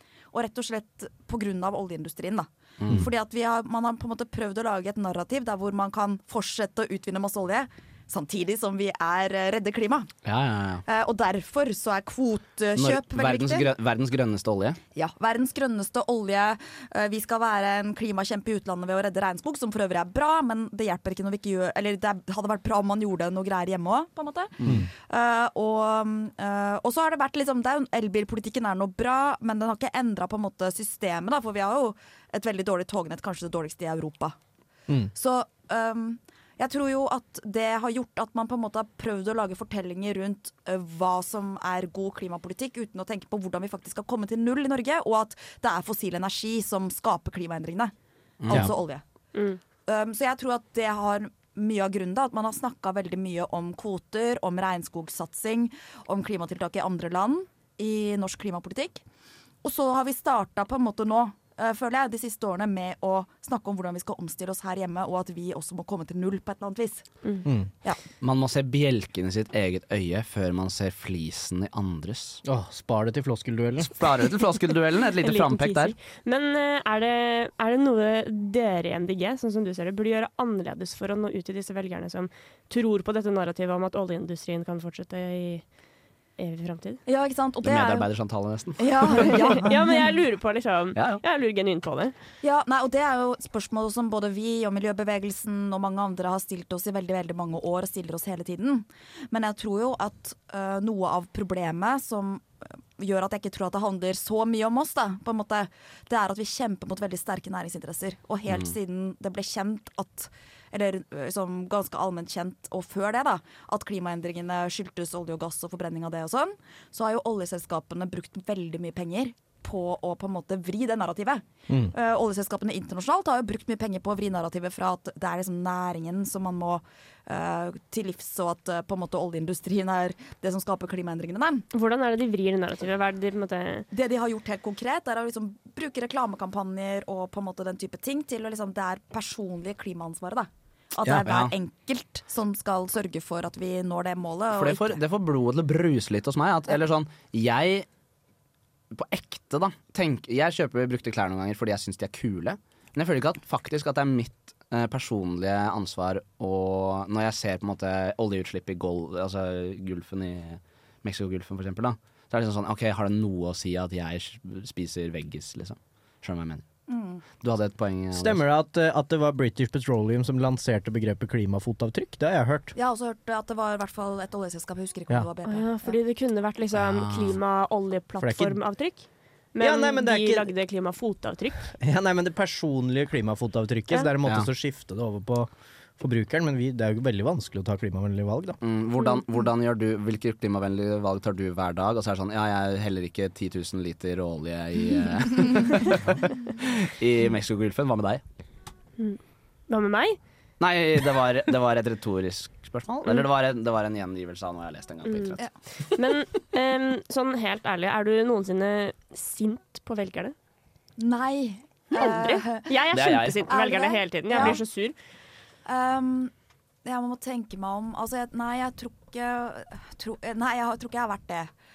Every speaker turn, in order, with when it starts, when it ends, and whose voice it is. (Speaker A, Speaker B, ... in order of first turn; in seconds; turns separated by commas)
Speaker A: 0.3-10.1, Speaker B: 2.8-3.1, Speaker B: 10.2-10.8, Speaker A: 10.9-13.7, Speaker B: 12.8-14.8, Speaker A: 14.9-34.4, Speaker A: 35.1-47.9, Speaker B: 48.4-48.7, Speaker A: 48.5-49.0, Speaker A: 49.9-59.0, Speaker A: 59.6-67.0, Speaker B: 68.2-72.4, Speaker C: 72.4-74.0, Speaker B: 73.9-75.9, Speaker D: 75.2-85.6, Speaker D: 86.4-87.0, Speaker A: 87.0-88.1, Speaker B: 87.6-89.5, Speaker A: 88.8-90.0, Speaker D: 89.3-92.1, Speaker B: 90.9-91.2, Speaker A: 92.4-131.7, Speaker D: 131.7-133.9, Speaker A: 133.9-145.0, Speaker B: 141.0-141.5, Speaker B: 144.5-147.9, Speaker B: 148.9-166.6, Speaker A: 166.9-167.2, Speaker B: 167.4-168.4, Speaker C: 168.1-172.7, Speaker A: 172.7-176.0, Speaker D: 175.4-181.7, Speaker B: 176.8-177.3, Speaker C: 178.2-178.6, Speaker C: 179.6-180.5, Speaker C: 181.8-188.6, Speaker B: 188.6-198.2, Speaker D: 199.0-200.2, Speaker B: 200.6-205.4, Speaker D: 205.0-205.4, Speaker D: 205.9-210.3, Speaker A: 211.0-212.7, Speaker D: 211.9-214.9, Speaker B: 212.9-213.4, Speaker A: 213.4-214.6, Speaker A: 215.7-216.3, Speaker A: 216.8-221.5